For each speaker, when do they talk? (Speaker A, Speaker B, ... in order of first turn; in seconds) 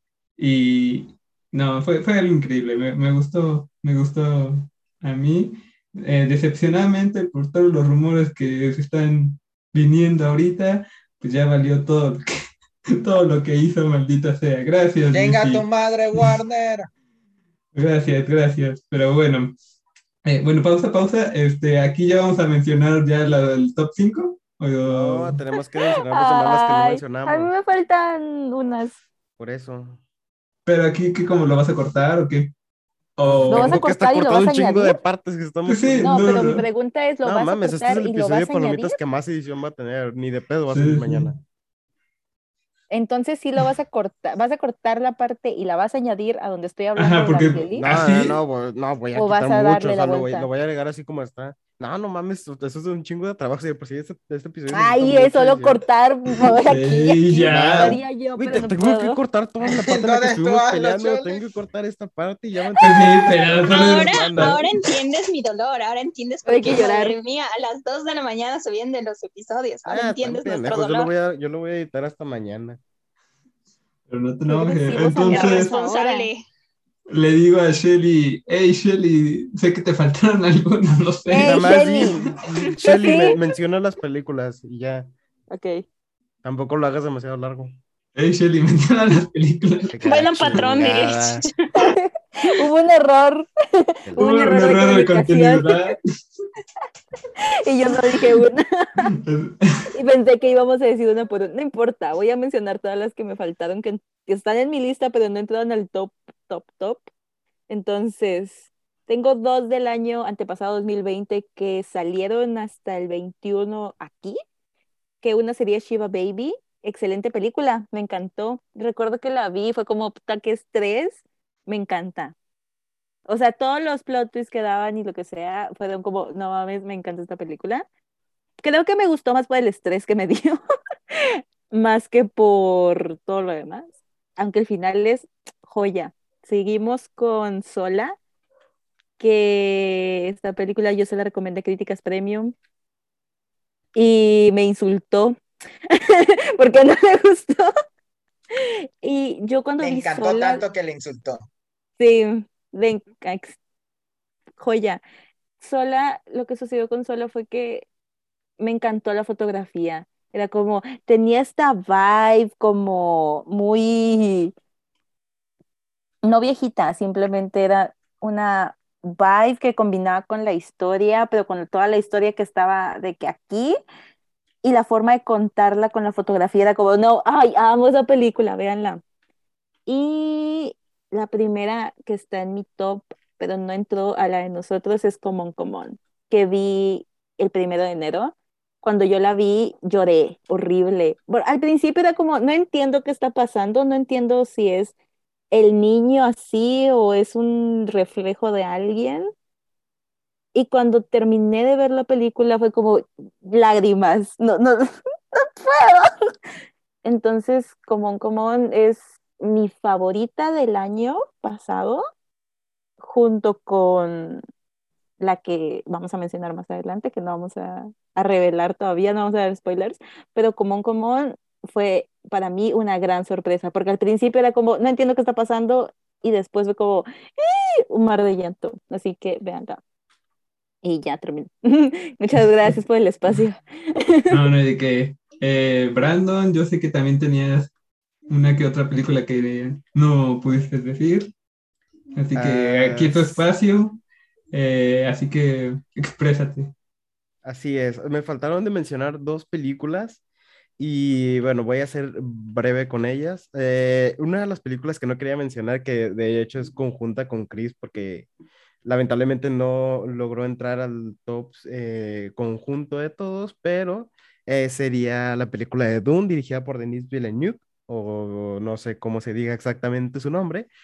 Speaker A: 0.4-12.4, 13.0-15.6, 17.7-19.5, 20.2-25.4, 30.6-32.5, 33.2-33.8, 35.7-36.6, 40.7-41.3, 47.0-48.4, 56.4-58.0, 62.8-64.9, 74.1-75.7, 77.1-82.2, 88.1-90.8, 94.2-96.0, 99.0-99.8, 234.3-237.7, 238.3-241.3, 242.2-244.0, 244.5-246.7
Speaker B: 15.1-16.9, 59.7-61.4, 149.8-151.5
Speaker C: 24.8-27.5, 29.4-30.0, 33.2-36.6, 37.2-41.4, 47.8-55.8, 57.5-64.6, 69.8-72.8, 81.4-85.1, 86.4-87.7, 89.9-91.4, 94.0-94.5, 242.3-243.4, 247.4-250.2, 250.8-258.3, 258.8-270.7
Speaker D: 26.1-29.0, 33.5-35.0, 36.0-39.0, 42.9-47.9, 49.1-50.5, 54.7-59.2, 66.5-67.2, 74.5-76.3, 81.3-82.2, 82.8-83.4, 85.5-85.8, 91.8-95.9, 97.4-99.1, 99.9-107.1, 107.7-114.4, 115.2-122.3, 123.2-127.8, 128.6-130.6, 131.1-138.2, 139.2-142.5, 143.9-145.3, 145.9-147.7, 148.5-150.6, 152.0-153.6, 154.6-155.0, 155.6-157.8, 158.6-164.5, 166.2-173.8, 174.6-179.0, 179.9-194.9, 195.5-199.3, 200.5-206.1, 207.0-212.0, 213.0-214.4, 215.2-229.8, 230.8-234.3
Speaker E: 63.2-71.1, 75.2-76.4, 90.0-91.7